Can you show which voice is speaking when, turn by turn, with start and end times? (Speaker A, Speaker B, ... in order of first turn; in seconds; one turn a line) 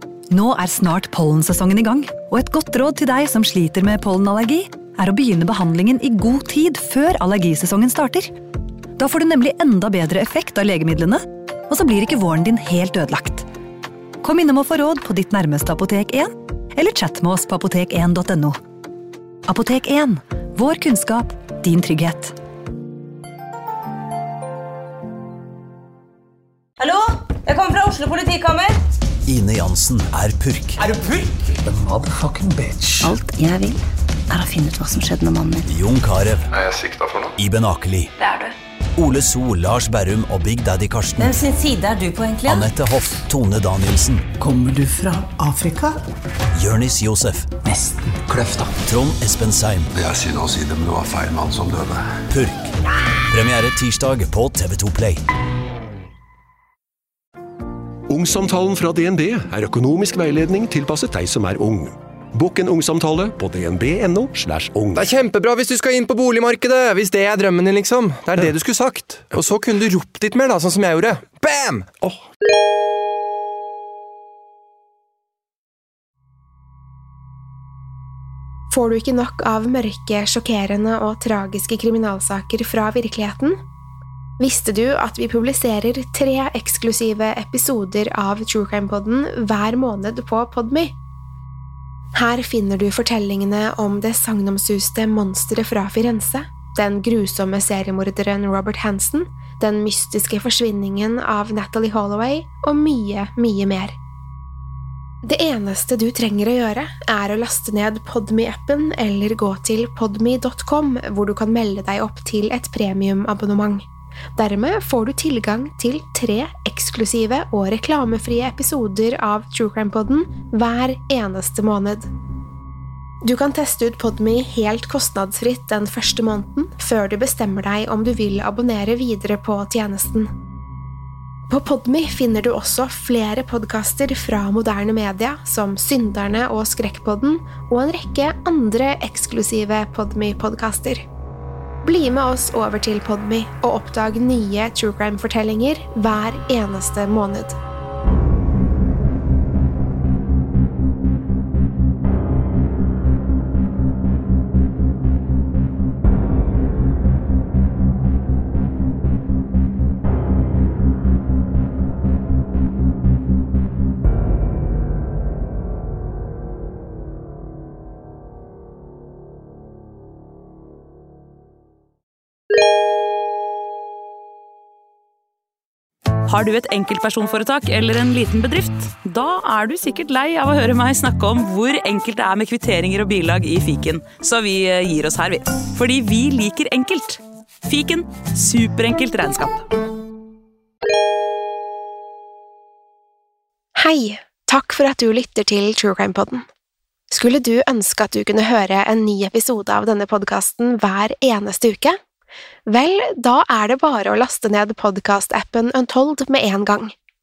Speaker A: 0.3-8.3
Speaker A: 9.0-13.4
Speaker A: 14.2-18.6
Speaker A: 19.5-22.4
Speaker B: 26.8-28.8
Speaker C: 29.3-30.8
Speaker D: 30.9-33.1
Speaker E: 33.0-35.6
Speaker C: 35.7-36.5
Speaker F: 36.8-37.1
Speaker C: 37.4-38.1
Speaker C: 39.0-41.4
Speaker B: 41.2-42.6
Speaker C: 42.4-44.2
Speaker D: 44.4-46.0
Speaker C: 46.6-47.5
Speaker D: 47.7-48.7
Speaker C: 48.8-49.9
Speaker F: 50.0-52.0
Speaker C: 52.3-52.7
Speaker C: 53.3-55.2
Speaker G: 58.1-65.1
Speaker H: 65.0-72.1
Speaker I: 78.7-83.6
Speaker I: 84.4-90.9
Speaker I: 92.2-104.0
Speaker I: 105.2-113.8
Speaker I: 114.4-122.1
Speaker I: 123.2-130.3
Speaker I: 131.5-141.0
Speaker I: 141.8-147.6
Speaker J: 176.3-189.6
Speaker I: 193.8-196.4
Speaker I: 197.1-202.0
Speaker I: 202.7-206.9